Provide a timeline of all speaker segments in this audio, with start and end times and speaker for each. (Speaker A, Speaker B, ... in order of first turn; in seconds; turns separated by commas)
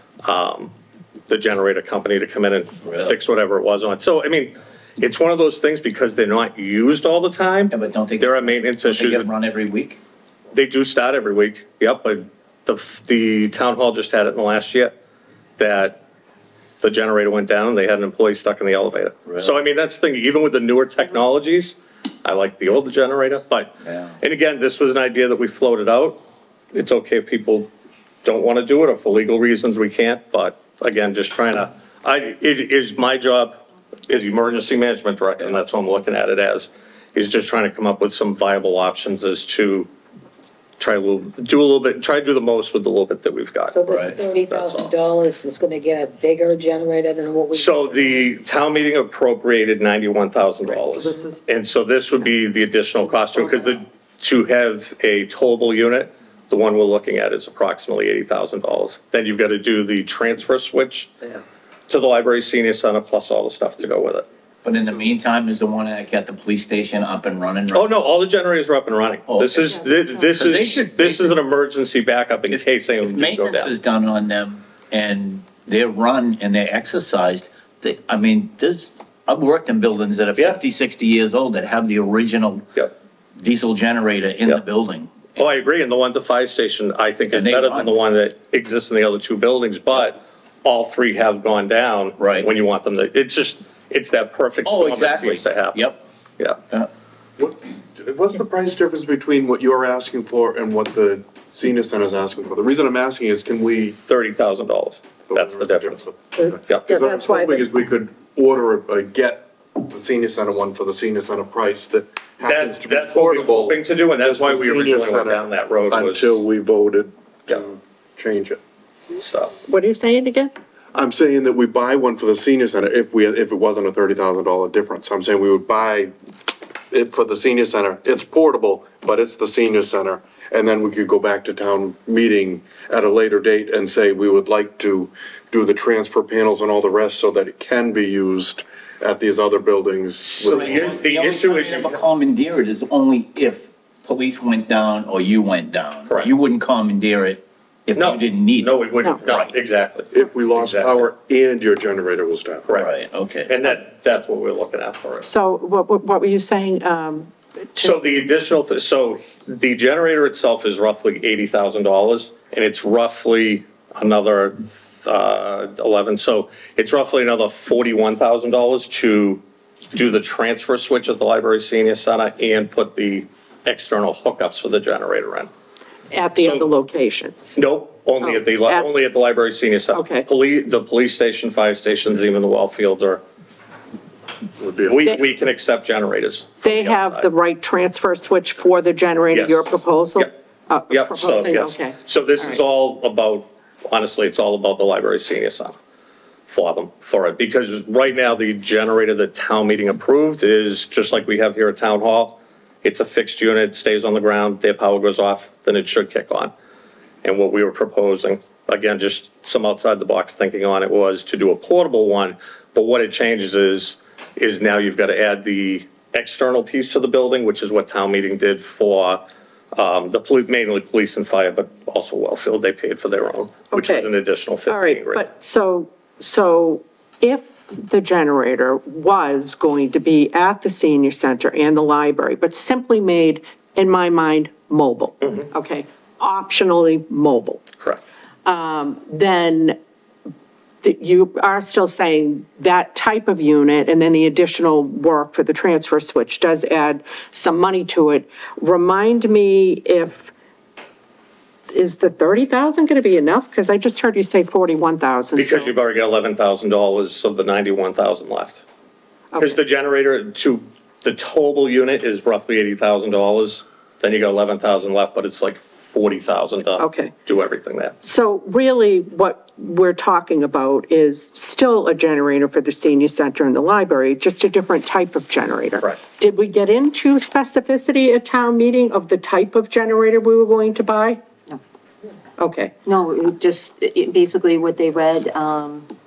Speaker A: 0.2-0.7, Speaker A: 1.3-9.3, Speaker B: 2.9-3.1, Speaker B: 7.7-10.0, Speaker A: 10.5-14.9, Speaker A: 15.6-16.0, Speaker A: 16.8-26.2, Speaker B: 19.3-19.5, Speaker B: 23.8-24.1, Speaker A: 26.7-27.7, Speaker A: 28.2-39.9, Speaker A: 40.8-44.9, Speaker C: 43.7-48.3, Speaker B: 43.9-44.2, Speaker A: 47.5-61.1, Speaker D: 50.7-51.4, Speaker A: 61.9-64.3, Speaker B: 64.6-67.9, Speaker A: 67.7-73.7, Speaker B: 69.3-69.8, Speaker B: 70.3-71.3, Speaker B: 72.5-82.7, Speaker B: 83.4-85.3, Speaker A: 85.3-96.6, Speaker B: 87.3-87.9, Speaker B: 92.2-92.5, Speaker B: 94.7-96.0, Speaker E: 97.4-104.0, Speaker A: 104.0-106.0, Speaker E: 105.3-118.6, Speaker D: 106.9-107.2, Speaker A: 112.4-116.4, Speaker A: 119.2-119.5, Speaker D: 119.7-120.5, Speaker E: 120.9-126.1, Speaker E: 126.9-140.9, Speaker A: 140.2-142.0, Speaker B: 140.4-149.6, Speaker A: 146.1-146.4, Speaker A: 147.9-151.0, Speaker E: 150.1-152.7, Speaker A: 152.7-155.3, Speaker B: 152.7-153.5, Speaker D: 155.2-158.0, Speaker A: 157.8-169.4, Speaker A: 169.9-175.5, Speaker D: 176.1-177.6, Speaker A: 176.4-176.7, Speaker A: 177.6-183.2, Speaker D: 178.2-178.9, Speaker D: 179.9-180.2, Speaker E: 184.6-185.0, Speaker A: 184.8-187.3, Speaker D: 186.6-192.6, Speaker A: 189.3-190.3, Speaker A: 190.9-195.8, Speaker A: 196.5-206.5, Speaker A: 207.2-219.2, Speaker A: 219.8-225.2, Speaker D: 223.7-224.1, Speaker D: 224.7-237.6, Speaker A: 237.8-238.1, Speaker D: 238.4-239.8, Speaker D: 240.8-250.3, Speaker D: 251.7-255.7, Speaker A: 255.4-258.6, Speaker A: 259.4-267.9, Speaker D: 266.8-267.1, Speaker D: 268.0-281.2, Speaker D: 282.4-282.8, Speaker F: 282.9-285.8